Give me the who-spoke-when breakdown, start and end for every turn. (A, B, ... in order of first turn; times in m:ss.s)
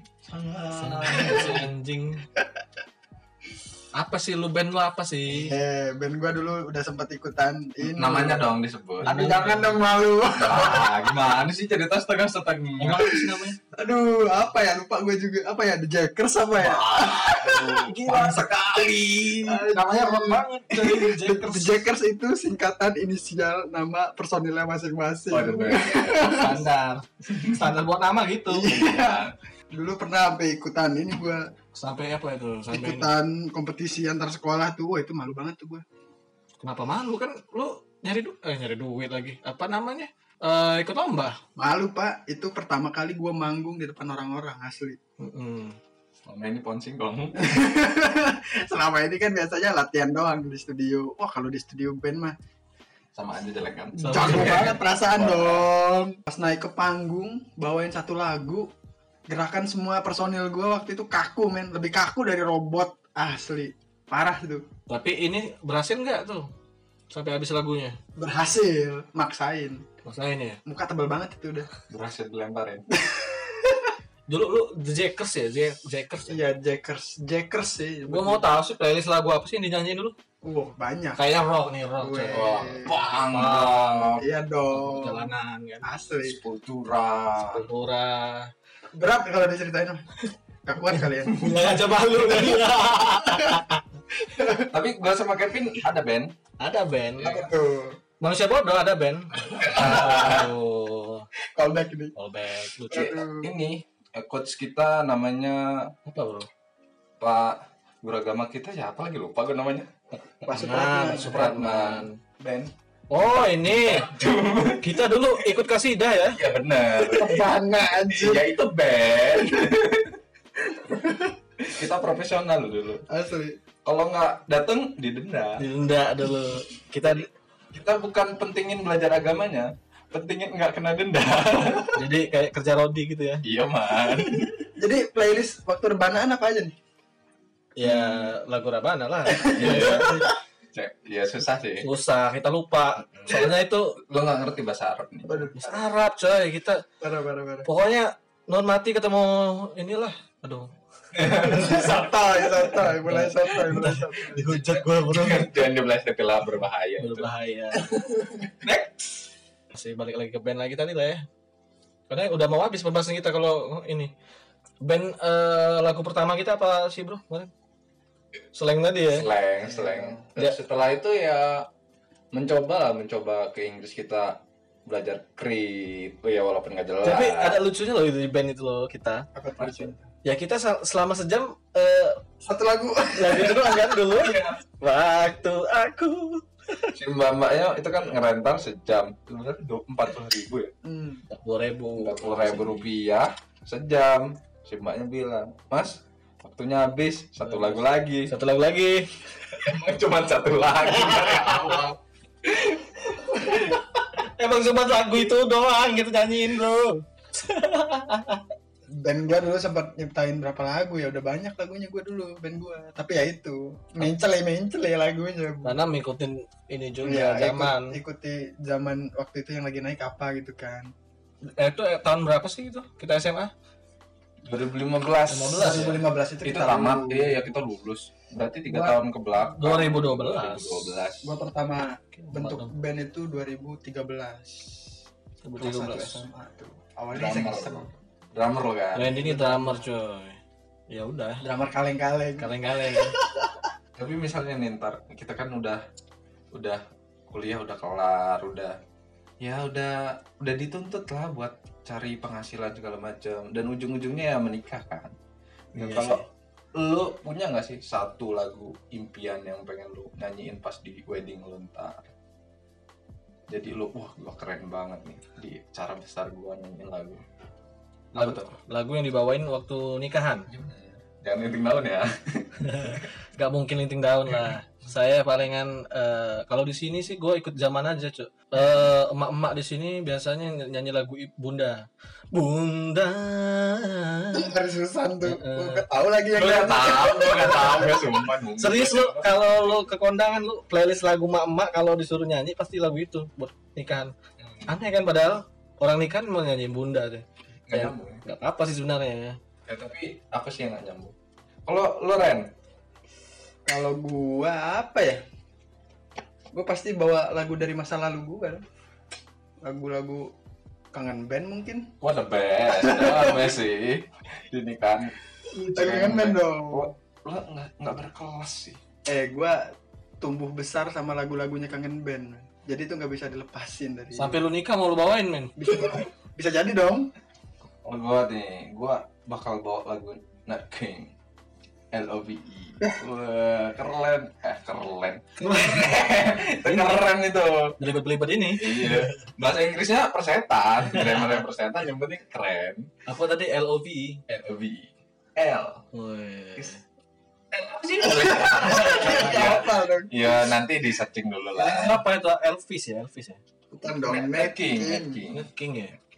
0:00.3-0:01.6 A
0:00.8-0:02.2 B
0:01.0-0:01.6 C
0:04.0-0:05.5 B
0:05.3-0:08.5 C
0:07.8-0:09.6 A
0:09.0-0:09.8 B
0:09.4-0:11.3 C
0:10.4-0:13.0 A
0:12.8-0:13.6 B
0:13.7-0:17.7 C
0:16.6-0:19.5 A
0:17.8-0:18.4 B
0:19.1-0:21.8 B
0:19.5-0:20.4 C
0:21.0-0:26.6 C
0:25.3-0:26.4 A
0:26.3-0:28.7 B
0:28.5-0:31.4 C
0:28.7-0:29.3 A
0:31.8-0:33.1 B
0:32.7-0:35.8 C
0:36.6-0:41.4 B
0:41.6-0:45.0 C
0:45.2-0:45.8 B
0:46.2-0:47.4 A
0:47.4-0:52.3 C
0:53.1-0:55.7 A
0:54.0-0:58.7 C
0:54.0-0:54.8 B
0:59.3-1:04.6 C
1:04.9-1:06.4 B
1:07.1-1:08.0 B
1:08.2-1:09.8 C
1:10.0-1:10.6 B
1:10.6-1:11.7 C
1:11.9-1:12.9 A
1:13.0-1:13.9 C
1:14.3-1:16.5 B
1:16.3-1:18.4 C
1:18.1-1:20.1 B
1:20.4-1:21.2 C
1:21.2-1:22.5 B
1:22.0-1:23.1 C
1:22.3-1:24.2 A
1:23.3-1:24.1 B
1:24.2-1:25.3 C
1:24.7-1:25.8 B
1:25.8-1:26.4 C
1:26.2-1:27.6 A
1:27.4-1:28.5 B
1:28.9-1:30.0 C
1:30.6-1:31.5 C
1:31.4-1:33.8 B
1:31.4-1:31.8 A
1:32.2-1:33.6 C
1:34.3-1:34.6 C
1:34.6-1:36.3 A
1:36.6-1:37.4 B
1:37.2-1:37.5 A
1:37.2-1:38.0 C
1:38.2-1:41.2 B
1:39.4-1:40.5 A
1:41.5-1:42.1 C
1:42.1-1:43.2 B
1:42.9-1:43.5 C
1:43.0-1:45.9 A
1:46.0-1:46.5 B
1:47.2-1:49.9 A
1:50.4-1:51.5 C
1:50.5-1:52.1 B
1:51.3-1:55.4 A
1:53.1-1:54.1 B
1:54.8-1:56.4 B
1:56.3-2:00.2 A
1:57.0-1:58.4 C
2:00.8-2:01.4 C
2:01.7-2:03.0 A
2:03.1-2:03.6 C
2:03.8-2:05.6 A
2:05.6-2:07.3 B
2:07.7-2:12.0 A
2:11.9-2:13.4 B
2:13.4-2:14.5 A
2:14.7-2:16.7 C
2:17.8-2:20.2 B
2:17.8-2:18.3 A
2:19.3-2:20.3 C
2:19.5-2:20.2 A
2:20.7-2:21.8 A
2:21.8-2:24.0 B
2:23.1-2:23.5 A
2:24.1-2:25.4 A
2:25.2-2:25.8 C
2:25.6-2:26.8 B
2:27.0-2:27.7 C
2:27.6-2:31.9 B
2:31.1-2:31.9 A
2:31.5-2:34.6 C
2:33.0-2:35.5 B
2:34.6-2:37.3 A
2:37.0-2:37.9 B
2:37.8-2:38.5 C
2:38.6-2:39.3 A
2:39.7-2:41.2 B
2:42.1-2:44.1 B
2:44.8-2:47.5 B
2:48.5-2:49.3 B
2:49.1-2:51.7 A
2:49.6-2:50.2 C
2:52.3-2:57.6 A
2:57.0-2:59.2 B
2:59.3-3:00.0 C
2:59.6-2:59.9 A
3:00.2-3:02.2 B
3:02.4-3:03.9 C
3:03.1-3:06.9 B
3:04.1-3:04.6 A
3:06.9-3:10.7 A
3:10.8-3:11.2 C
3:11.3-3:12.9 B
3:12.0-3:18.3 A
3:17.4-3:19.1 B
3:19.5-3:23.8 A
3:20.9-3:21.8 B
3:23.4-3:28.4 B
3:29.0-3:35.8 C
3:35.6-3:38.0 B
3:37.0-3:40.9 C
3:41.6-3:43.5 B
3:44.4-3:51.3 A
3:45.3-3:46.0 B
3:45.6-3:47.5 C
3:48.7-3:49.0 C
3:49.5-3:50.8 B
3:51.2-3:54.7 C
3:52.2-3:52.7 B
3:55.4-3:56.2 B
3:55.6-3:57.9 C
3:57.1-3:59.2 A
3:58.9-4:00.4 B
3:59.2-3:59.9 C
4:00.9-4:01.4 B
4:01.4-4:03.6 C
4:02.4-4:03.2 B
4:04.0-4:05.8 A
4:06.5-4:08.8 A
4:09.4-4:15.1 A
4:15.7-4:16.2 A
4:15.8-4:16.2 B
4:16.7-4:22.1 A
4:23.5-4:27.2 A
4:28.1-4:28.5 A
4:28.2-4:30.5 B
4:30.5-4:33.1 A
4:32.6-4:44.5 B
4:44.3-4:48.0 C
4:45.2-4:45.8 B
4:46.3-4:49.9 A
4:48.6-4:54.1 B
4:54.4-4:54.7 A
4:54.7-4:59.4 B
4:57.7-4:58.2 A
4:59.7-5:01.1 A
5:01.6-5:02.5 A
5:03.7-5:05.2 C
5:06.5-5:08.6 C
5:09.6-5:10.2 C
5:10.9-5:11.8 C
5:12.0-5:18.8 A
5:12.7-5:13.5 C
5:15.6-5:16.9 C
5:19.0-5:19.6 C
5:20.2-5:24.4 C
5:24.1-5:25.5 B
5:25.6-5:27.1 C
5:27.8-5:31.1 A
5:31.9-5:37.8 A
5:35.4-5:36.0 B
5:36.6-5:37.0 B
5:37.8-5:39.2 B
5:38.6-5:42.9 A
5:40.9-5:41.4 B
5:43.0-5:44.2 B
5:44.3-5:45.8 A
5:45.9-5:46.8 B
5:47.5-5:52.0 A
5:48.0-5:50.4 C
5:48.8-5:49.4 B
5:51.6-5:53.4 B
5:53.7-5:55.2 C
5:54.0-5:55.4 A
5:55.3-5:56.0 B